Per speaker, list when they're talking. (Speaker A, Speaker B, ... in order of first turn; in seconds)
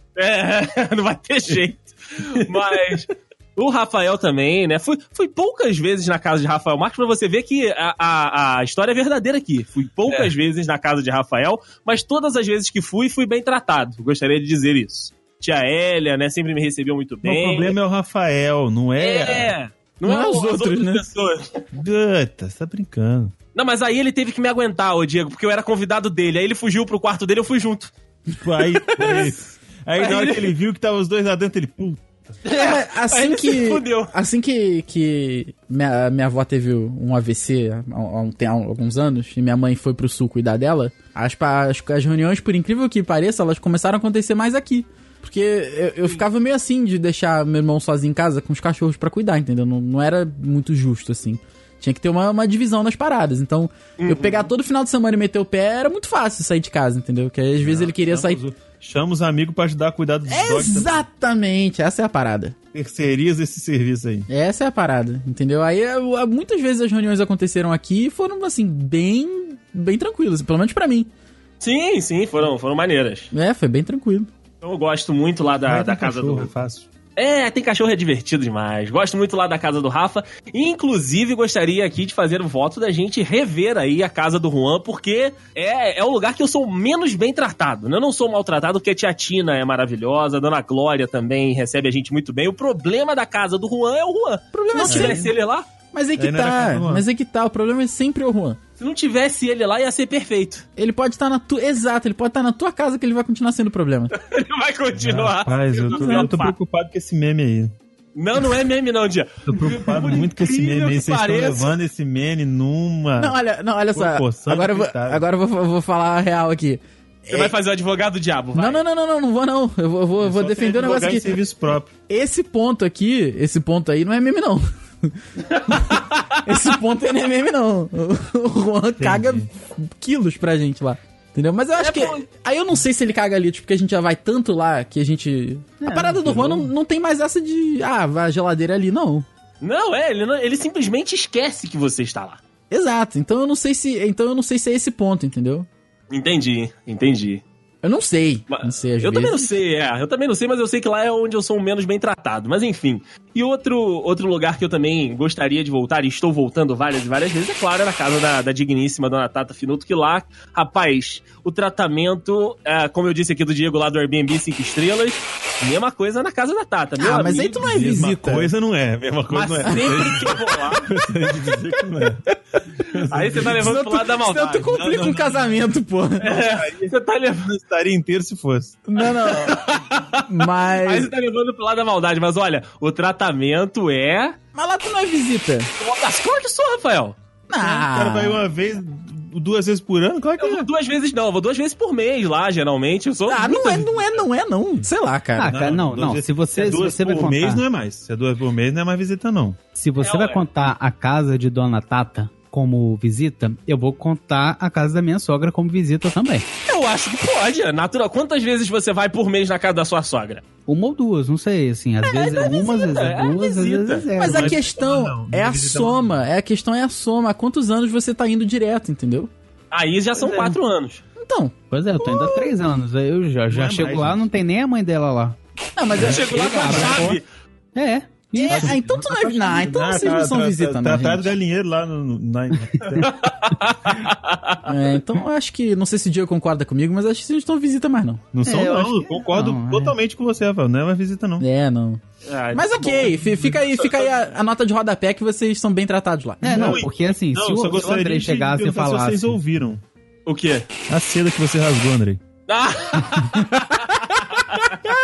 Speaker A: 0.2-17.8, 19.0-21.6, 23.6-27.9, 30.0-30.5, 32.5-34.1, 54.0-54.5, 71.6-73.3, 74.6-76.5, 77.2-95.7, 98.8-100.7, 104.2-106.5, 108.2-111.7, 117.3-118.8, 125.5-126.3, 131.8-132.2, 139.6-142.4, 146.1-147.4, 148.5-167.8, 169.3-170.9, 173.1-174.7, 176.2-177.5, 179.0-184.4, 185.8-187.2, 190.4-194.0, 200.0-200.5, 206.7-210.4, 212.0-214.1, 219.7-221.0, 225.9-227.3, 233.0-234.6, 242.3-244.1, 250.3-250.7, 252.5-254.8
Speaker B: 10.1-10.3, 17.2-19.6, 21.7-23.3, 28.4-32.3, 57.6-61.0, 62.7-64.3, 75.7-76.9, 94.8-95.3, 96.2-97.0, 105.0-107.7, 109.5-113.4, 113.9-115.2, 120.2-121.9, 129.0-129.5, 167.6-172.2, 172.8-173.8, 174.7-175.7, 176.3-178.8, 187.6-190.7, 195.4-199.6, 214.2-216.2, 223.5-224.3, 228.5-233.4, 238.3-241.4, 246.4-249.8, 250.9-252.2
Speaker C: 20.0-21.0, 28.7-29.3, 32.5-58.4, 60.3-62.5, 64.3-71.1, 73.3-74.3, 94.5-95.3, 95.9-98.6, 100.8-104.2, 106.0-106.3, 113.2-117.5, 118.5-121.4, 122.1-125.2, 125.7-139.3, 142.7-145.7, 147.8-149.5, 167.0-168.5, 169.7-170.0, 173.5-176.3, 178.9-179.7, 180.3-181.1, 184.6-185.7, 187.5-188.4, 193.3-195.5, 214.2-219.3, 221.2-222.5, 225.8-227.1, 228.3-231.3, 234.7-238.2, 241.4-242.0, 242.5-246.8
Speaker D: 135.8-136.7, 195.4-197.6, 199.8-206.5, 210.7-214.6, 220.2-220.6, 221.7-225.4, 225.9-227.2, 227.8-229.7, 238.4-239.9, 246.4-249.4